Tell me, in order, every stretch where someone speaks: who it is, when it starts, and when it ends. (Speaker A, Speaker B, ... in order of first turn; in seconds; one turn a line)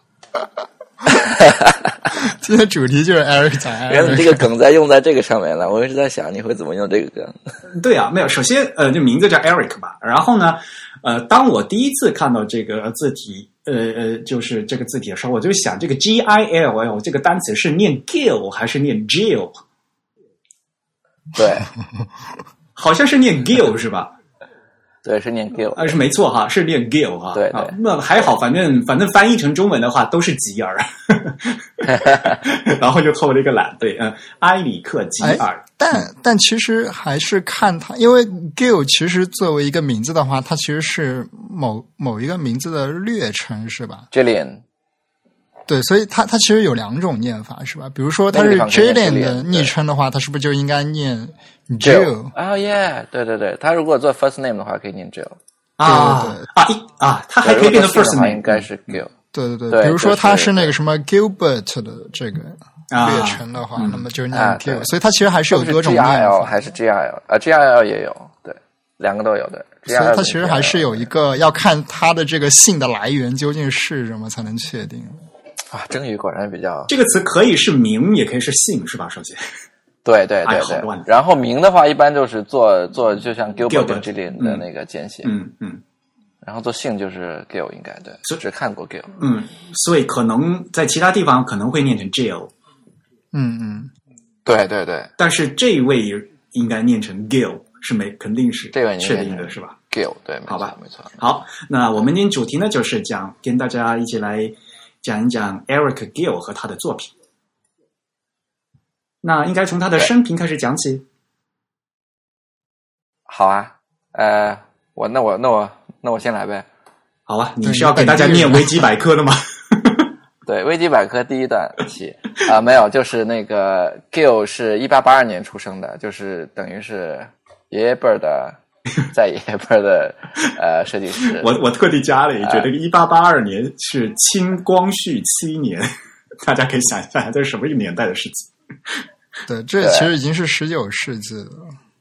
Speaker A: 1.1-2.1
Speaker B: 2.1-4.5
Speaker A: 3.9-7.5
Speaker C: 7.7-19.6
Speaker A: 21.3-21.7
Speaker C: 22.8-24.1
Speaker A: 25.0-26.0
Speaker C: 25.7-35.7
Speaker A: 27.3-27.8
Speaker A: 31.8-32.5
Speaker B: 35.2-44.1
Speaker A: 44.1-44.6
Speaker B: 45.7-52.3
Speaker A: 48.3-49.7
Speaker A: 51.8-55.4
Speaker C: 55.8-58.7
Speaker B: 55.9-56.5
Speaker A: 57.4-59.1
Speaker B: 59.3-66.6
Speaker A: 59.7-60.7
Speaker C: 62.9-64.0
Speaker A: 64.3-64.9
Speaker A: 65.5-71.1
Speaker B: 69.9-75.2
Speaker A: 75.7-76.9
Speaker C: 76.9-79.4
Speaker A: 80.0-85.3
Speaker C: 80.5-81.1
Speaker C: 83.7-84.7
Speaker C: 85.2-85.8
Speaker A: 86.4-89.2
Speaker C: 89.2-92.5
Speaker B: 93.3-93.9
Speaker A: 94.5-95.1
Speaker C: 95.2-99.8
Speaker A: 98.7-101.2
Speaker C: 100.5-107.1
Speaker C: 109.2-111.0
Speaker A: 113.3-116.7
Speaker C: 117.3-120.1
Speaker B: 117.6-118.8
Speaker A: 120.5-128.6
Speaker A: 129.1-131.6
Speaker C: 131.3-135.9
Speaker A: 132.4-132.7
Speaker C: 136.4-139.0
Speaker B: 139.5-141.8
Speaker A: 139.8-140.1